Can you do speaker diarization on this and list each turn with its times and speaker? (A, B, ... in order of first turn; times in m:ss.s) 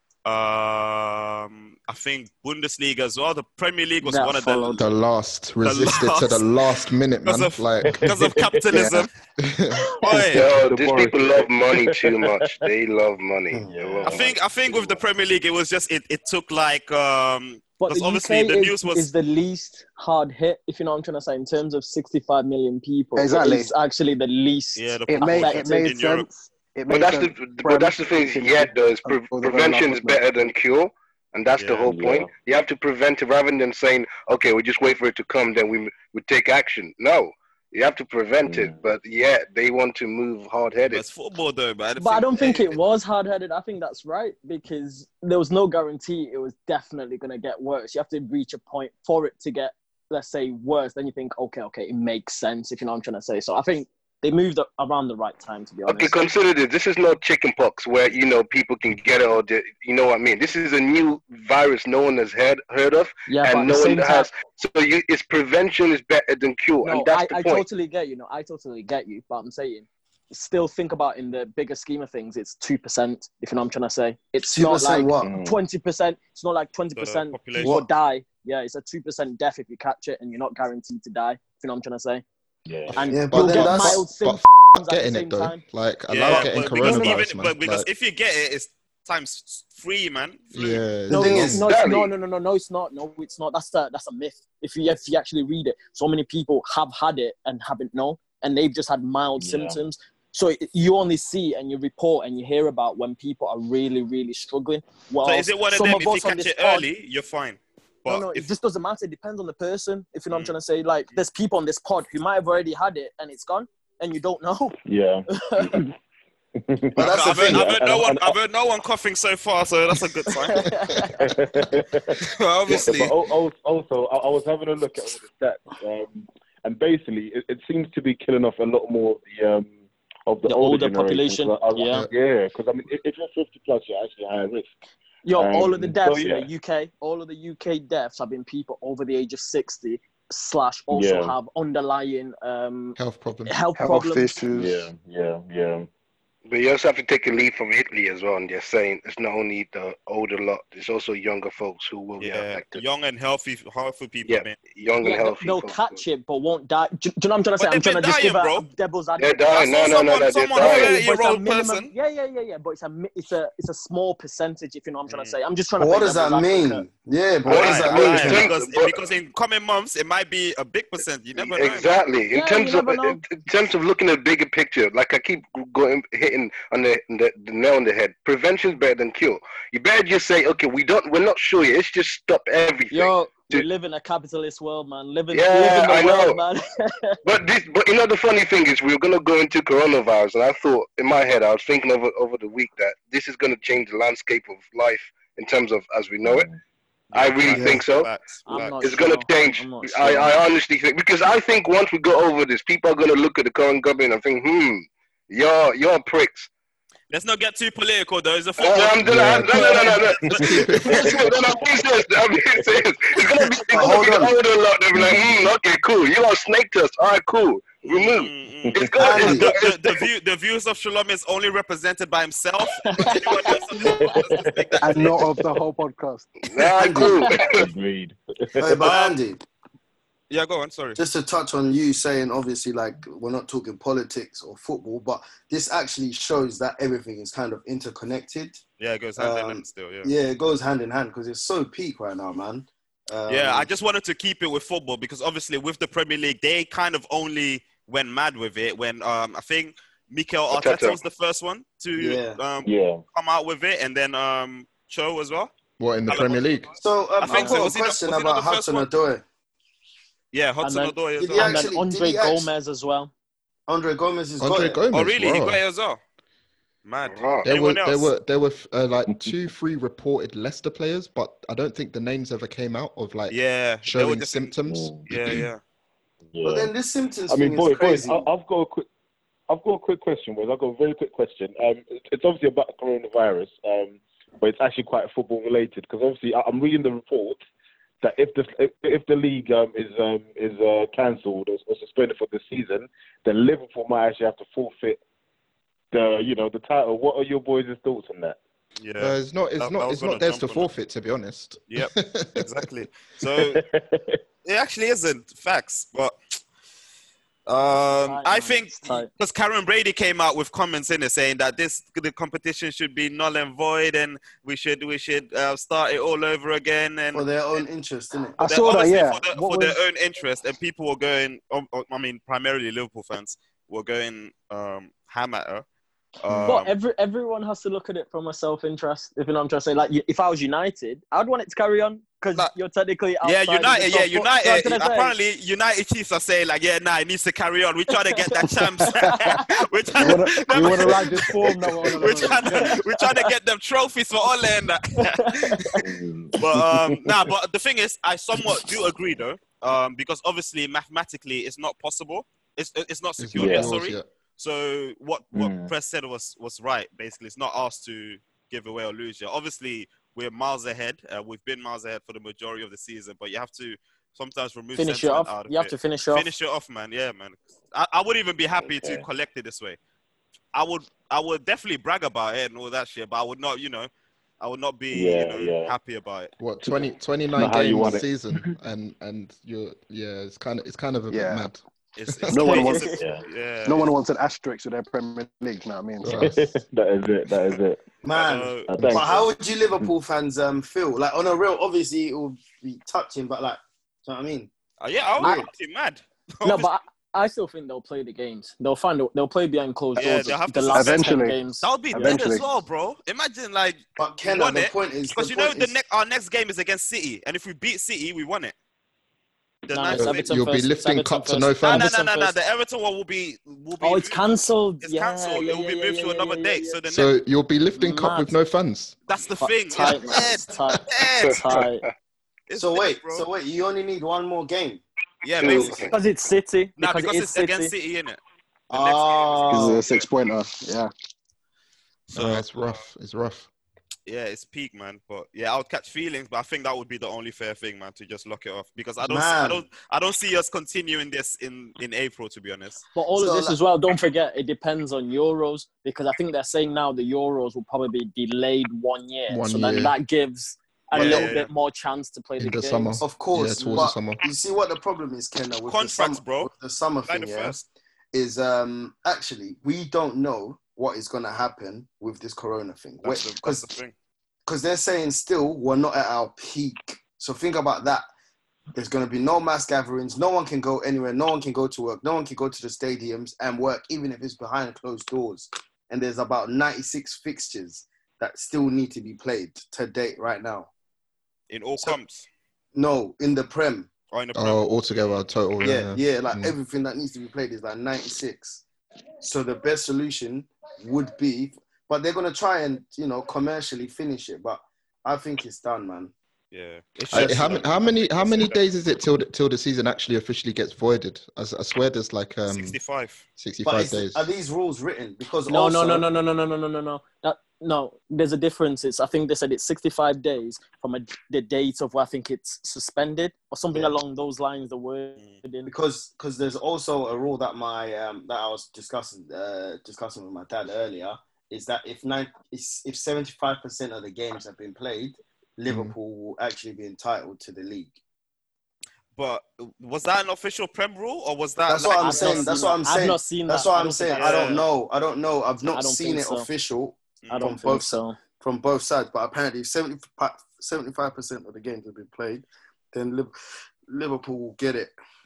0:00.2-0:04.9 A
0:04.0-0:04.9 B
0:04.8-0:08.1 C
0:05.6-0:06.5 A
0:07.2-0:09.1 A
0:07.9-0:08.8 D
0:08.7-0:09.0 E
0:09.4-0:09.9 C
0:10.0-0:10.5 A
0:10.1-0:12.6 D
0:10.3-0:14.9 F
0:13.6-0:15.0 D
0:14.1-0:19.1 A
0:17.8-0:25.8 B
0:23.2-0:23.7 E
0:24.8-0:26.3 A
0:25.1-0:30.2 E
0:26.9-0:41.0 F
0:31.6-0:31.9 A
0:31.8-0:32.3 D
0:38.4-0:38.9 D
0:40.9-0:42.8 A
0:42.0-0:56.3 B
0:55.9-1:07.6 F
1:03.3-1:04.3 B
1:06.8-1:22.2 B
1:14.4-1:15.4 G
1:15.2-1:15.6 D
1:17.0-1:17.8 A
1:17.6-1:17.9 G
1:22.7-1:23.0 D
1:22.9-1:27.9 C
1:23.0-1:25.6 B
1:23.1-1:24.0 G
1:26.1-1:30.8 A
1:30.5-1:31.6 C
1:31.1-1:31.8 G
1:31.1-1:46.9 B
1:31.7-1:32.1 F
1:39.4-1:39.8 D
1:45.2-1:48.5 A
1:48.1-1:54.8 B
1:54.9-1:55.9 D
1:55.3-1:55.8 B
1:56.7-1:58.4 D
1:57.0-1:57.7 G
1:57.0-2:00.7 A
2:00.5-2:01.2 B
2:01.0-2:14.7 D
2:02.2-2:03.1 A
2:10.4-2:12.0 B
2:15.2-2:23.0 B
2:15.4-2:16.5 D
2:20.9-2:21.4 D
2:23.0-2:23.6 C
2:23.5-2:24.3 B
2:23.8-2:24.9 E
2:24.5-2:25.9 D
2:26.5-2:32.8 F
2:32.2-2:34.6 A
2:34.3-2:36.0 F
2:35.0-2:39.7 B
2:37.6-2:38.7 A
2:39.2-2:40.9 F
2:39.5-2:41.9 A
2:40.6-2:46.9 B
2:45.1-2:45.4 A
2:45.8-2:48.5 G
2:47.5-2:49.0 F
2:47.5-2:51.9 A
2:51.4-3:03.6 F
2:52.3-2:53.2 B
3:02.9-3:07.2 B
3:05.3-3:06.4 F
3:07.2-3:16.5 F
3:16.2-3:16.6 D
3:17.1-3:18.8 A
3:17.1-3:18.1 F
3:17.5-3:17.8 G
3:18.5-3:20.4 B
3:18.8-3:26.5 F
3:27.1-3:30.8 A
3:28.6-3:30.2 F
3:29.0-3:29.6 C
3:29.1-3:29.4 D
3:30.2-3:31.2 D
3:30.4-3:31.2 C
3:30.5-3:31.2 G
3:31.0-3:40.0 F
3:33.7-3:34.3 G
3:33.8-3:34.2 D
3:37.9-3:45.2 A
3:38.7-3:39.4 D
3:39.0-3:39.5 G
3:42.9-3:44.2 B
3:43.8-3:45.1 D
3:44.8-3:46.3 E
3:46.5-3:47.7 F
3:46.6-3:47.6 G
3:46.9-3:48.9 D
3:48.6-3:49.4 G
3:48.8-3:49.2 A
3:50.3-3:51.0 A
3:51.0-3:58.6 G
3:58.8-4:00.1 A
3:59.2-4:03.7 G
4:03.3-4:15.5 A
4:10.5-4:11.0 F
4:12.0-4:12.4 G
4:12.6-4:13.0 D
4:15.8-4:16.7 C
4:16.1-4:16.4 A
4:16.8-4:19.2 G
4:17.2-4:18.9 A
4:17.3-4:17.7 B
4:20.3-4:21.6 A
4:20.6-4:23.1 B
4:21.2-4:22.5 G
4:23.7-4:24.8 G
4:24.4-4:25.6 C
4:24.9-4:26.0 A
4:26.8-4:28.1 A
4:27.0-4:27.5 F
4:27.4-4:35.5 C
4:33.3-4:34.6 A
4:34.7-4:35.1 D
4:35.1-4:35.6 A
4:36.3-4:36.7 D
4:36.4-4:38.3 G
4:37.3-4:38.9 D
4:39.5-4:47.4 D
4:48.0-4:55.0 D
4:55.9-4:58.4 D
4:58.8-5:00.7 A
4:59.0-5:02.5 C
5:01.7-5:03.6 A
5:03.4-5:04.2 D
5:04.4-5:06.1 A
5:07.5-5:17.2 A
5:07.8-5:09.1 B
5:17.1-5:18.4 G
5:18.4-5:19.8 E
5:18.4-5:25.6 A
5:26.2-5:26.7 A
5:26.2-5:26.6 C
5:26.5-5:35.1 B
5:33.2-5:45.8 A
5:38.8-5:40.6 B
5:40.0-5:42.8 E
5:42.1-5:43.2 B
5:45.0-5:45.8 B
5:45.8-5:47.2 D
5:46.4-6:09.8 A
5:53.2-5:54.1 C
5:53.4-5:53.8 D
5:55.3-5:55.7 D
6:04.8-6:06.3 B
6:08.6-6:09.1 D
6:10.5-6:13.9 A
6:14.4-6:16.3 A
6:14.9-6:15.7 D
6:16.4-6:22.3 C
6:16.6-6:18.5 D
6:21.1-6:21.5 E
6:22.0-6:23.9 A
6:22.3-6:22.9 E
6:22.4-6:23.0 B
6:22.9-6:23.2 D
6:23.7-6:26.2 E
6:26.0-6:26.6 C
6:26.1-6:27.8 D
6:28.0-6:34.5 G
6:28.1-6:28.7 A
6:28.7-6:29.9 D
6:34.8-6:36.7 A
6:35.2-6:35.5 G
6:36.4-6:42.2 B
6:40.0-6:41.1 A
6:40.7-6:41.4 E
6:41.6-6:48.6 A
6:41.9-6:42.4 E
6:44.0-6:45.7 G
6:49.7-6:50.3 A
6:49.7-6:52.3 B
6:49.9-6:51.9 C
6:51.6-6:54.2 A
6:53.8-6:56.8 B
6:54.8-6:57.1 A
6:56.9-6:59.0 C
6:57.8-6:58.4 B
6:59.1-7:01.4 A
6:59.4-7:01.8 B
7:01.2-7:01.6 F
7:02.5-7:03.3 A
7:02.6-7:04.8 G
7:05.2-7:05.9 A
7:05.4-7:05.9 F
7:05.4-7:05.9 G
7:05.9-7:07.7 B
7:06.8-7:10.1 A
7:08.7-7:09.8 G
7:09.5-7:10.9 E
7:12.1-7:13.5 C
7:12.1-7:12.5 A
7:14.1-7:22.8 A
7:19.0-7:19.7 G
7:23.0-7:33.0 B
7:23.2-7:23.6 G
7:29.3-7:29.9 C
7:30.9-7:31.5 A
7:32.4-7:34.2 C
7:33.0-7:37.6 G
7:35.7-7:36.5 A
7:37.1-7:37.6 A
7:38.1-7:43.6 G
7:43.0-7:43.9 A
7:44.5-7:48.0 G
7:48.7-8:00.7 G
8:01.5-8:02.3 A
8:02.8-8:03.9 G
8:04.1-8:05.2 A
8:04.4-8:06.6 C
8:05.6-8:08.6 G
8:09.2-8:16.1 G
8:16.5-8:18.6 A
8:17.1-8:17.7 G
8:17.1-8:22.8 C
8:22.5-8:23.2 A
8:23.4-8:24.3 C
8:23.6-8:26.0 G
8:25.5-8:35.7 B
8:35.7-8:48.0 G
8:45.7-8:46.0 C
8:49.2-8:52.5 A
8:51.7-9:03.3 G
8:52.0-8:54.5 B
8:54.1-8:54.6 A
8:55.7-8:56.5 B
8:57.3-8:58.2 B
9:03.9-9:04.9 G